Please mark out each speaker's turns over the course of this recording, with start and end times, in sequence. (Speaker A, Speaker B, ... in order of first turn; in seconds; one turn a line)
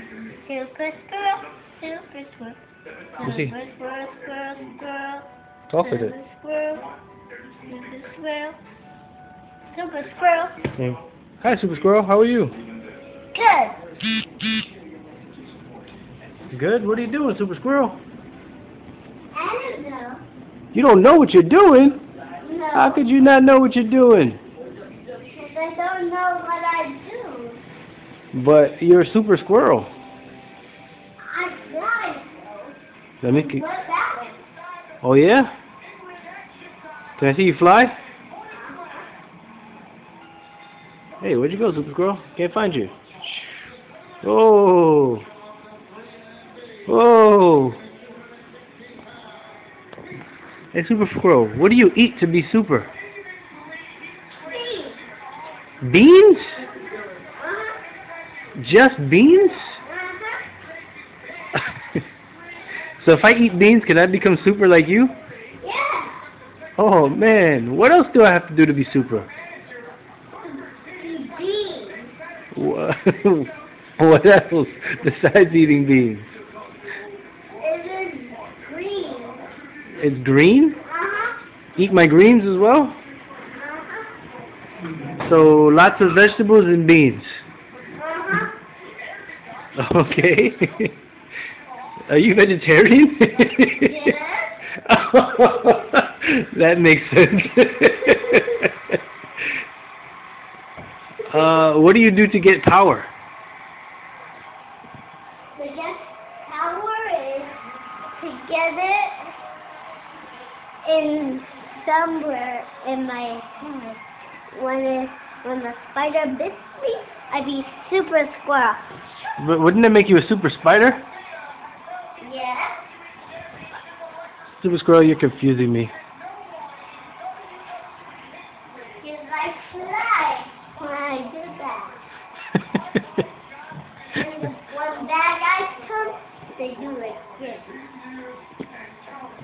Speaker A: 0.3-2.6
Speaker A: 3.2-6.9
Speaker B: 3.2-3.5
Speaker B: 5.7-6.1
Speaker A: 7.6-8.6
Speaker A: 9.7-10.6
Speaker B: 10.8-12.5
Speaker A: 13.3-13.8
Speaker B: 16.5-18.0
Speaker A: 19.3-20.2
Speaker B: 20.7-22.0
Speaker A: 22.4-23.1
Speaker B: 22.7-24.4
Speaker A: 25.0-27.6
Speaker B: 28.3-29.9
Speaker A: 31.2-34.4
Speaker B: 33.2-33.6
Speaker B: 35.0-35.5
Speaker B: 37.2-38.0
Speaker A: 38.5-38.9
Speaker B: 41.2-42.9
Speaker B: 44.2-45.2
Speaker B: 46.9-47.8
Speaker B: 50.7-52.9
Speaker A: 54.4-55.0
Speaker B: 55.8-56.6
Speaker A: 57.3-57.8
Speaker B: 58.6-59.8
Speaker A: 59.8-60.5
Speaker B: 61.5-61.8
Speaker B: 63.0-65.2
Speaker A: 65.6-66.2
Speaker B: 66.8-69.3
Speaker A: 70.6-72.1
Speaker B: 72.5-76.3
Speaker A: 77.6-79.5
Speaker B: 80.0-80.8
Speaker A: 80.8-81.4
Speaker B: 81.8-83.0
Speaker A: 83.5-84.1
Speaker B: 85.2-87.3
Speaker A: 88.0-88.5
Speaker B: 89.8-90.9
Speaker B: 92.1-94.0
Speaker A: 93.7-94.6
Speaker B: 94.8-99.0
Speaker B: 101.3-103.1
Speaker A: 101.3-101.6
Speaker A: 105.6-107.6
Speaker A: 108.2-109.3
Speaker A: 110.8-114.0
Speaker A: 114.5-118.8
Speaker B: 119.4-121.0
Speaker A: 122.2-122.8
Speaker B: 124.6-125.9
Speaker A: 129.0-132.0
Speaker B: 132.6-133.0
Speaker A: 134.1-137.8